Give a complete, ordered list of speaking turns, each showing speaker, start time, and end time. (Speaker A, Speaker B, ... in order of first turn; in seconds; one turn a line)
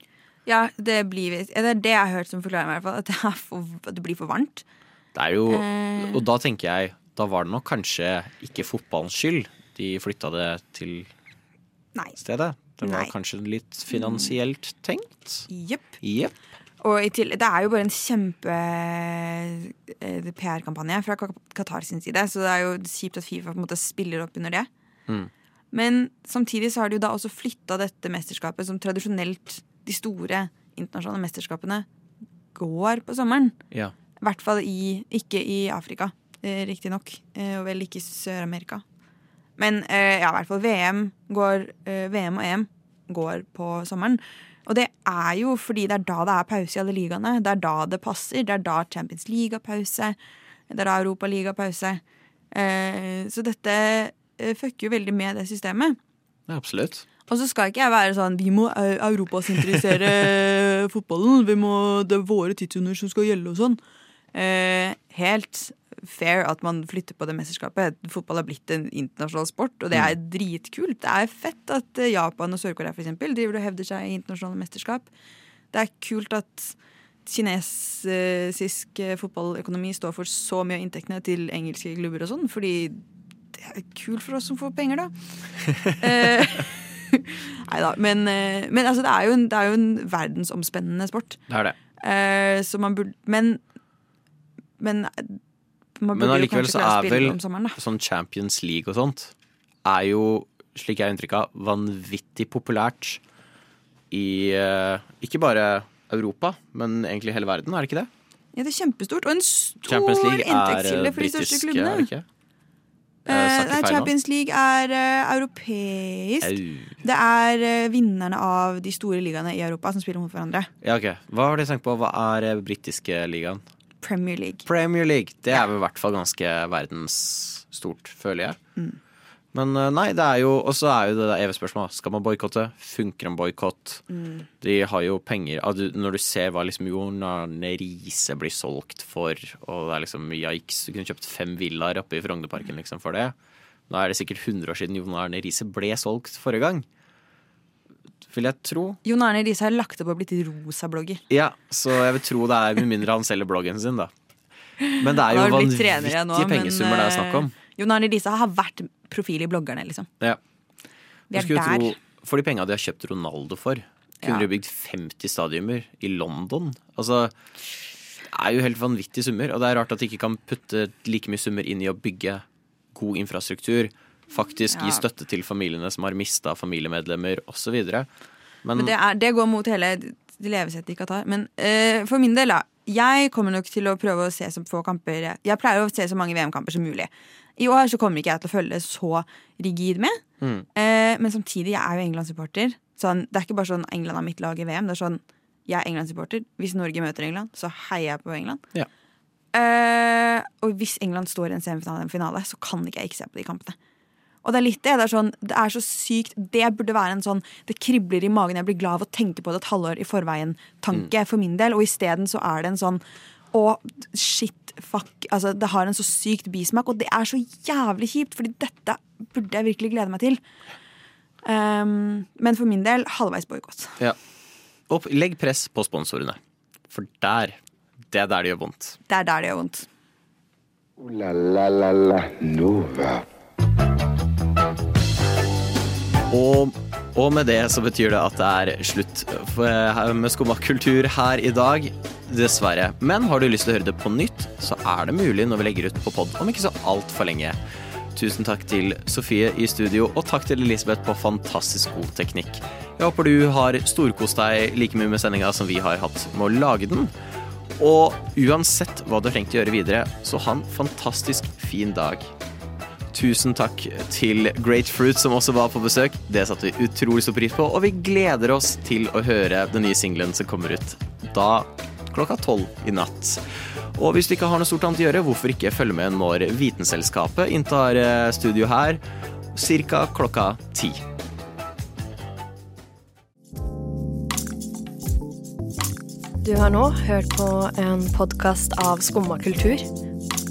Speaker A: 0.5-4.6
Speaker B: 5.1-11.1
Speaker A: 5.5-6.2
Speaker B: 12.2-15.5
Speaker A: 12.8-13.1
Speaker A: 13.9-14.3
Speaker A: 15.5-15.9
Speaker B: 16.0-16.3
Speaker A: 16.8-24.7
Speaker A: 25.7-31.9
Speaker A: 32.5-33.5
Speaker A: 34.2-38.8
Speaker A: 39.6-50.2
Speaker A: 50.7-56.0
Speaker B: 56.5-57.0
Speaker A: 57.3-63.8
Speaker A: 64.3-75.1
Speaker A: 75.7-83.0
Speaker A: 83.5-85.1
Speaker A: 85.9-91.4
Speaker B: 91.5-91.8
Speaker A: 92.0-93.6
Speaker A: 94.8-95.4
Speaker A: 96.0-97.8
Speaker B: 96.1-99.3
Speaker B: 99.8-103.2
Speaker B: 104.1-108.1
Speaker A: 108.5-112.1
Speaker B: 109.8-112.2
Speaker B: 113.2-114.1
Speaker A: 113.3-120.7
Speaker B: 116.4-117.0
Speaker B: 120.8-123.6
Speaker A: 124.0-124.6
Speaker B: 124.6-128.6
Speaker B: 129.5-134.0
Speaker A: 134.1-134.5
Speaker B: 134.6-143.3
Speaker B: 143.9-146.8
Speaker B: 148.3-149.0
Speaker A: 149.0-151.2
Speaker B: 151.3-154.1
Speaker A: 154.8-160.1
Speaker B: 155.0-157.5
Speaker A: 161.3-162.0
Speaker B: 161.3-167.3
Speaker B: 168.3-172.4
Speaker B: 172.9-178.1
Speaker A: 174.7-175.0
Speaker B: 178.6-178.9
Speaker A: 178.8-190.2
Speaker B: 190.4-190.7
Speaker A: 190.7-198.7
Speaker A: 199.5-203.8
Speaker A: 204.4-220.4
Speaker A: 221.4-223.9
Speaker B: 224.9-226.4
Speaker B: 226.9-227.6
Speaker B: 228.1-229.0
Speaker A: 229.1-229.8
Speaker C: 231.0-233.2
Speaker B: 236.3-247.6
Speaker B: 248.1-257.1
Speaker B: 257.8-262.3
Speaker B: 263.1-273.4
Speaker B: 273.9-279.0
Speaker B: 279.5-281.0
Speaker D: 286.4-289.9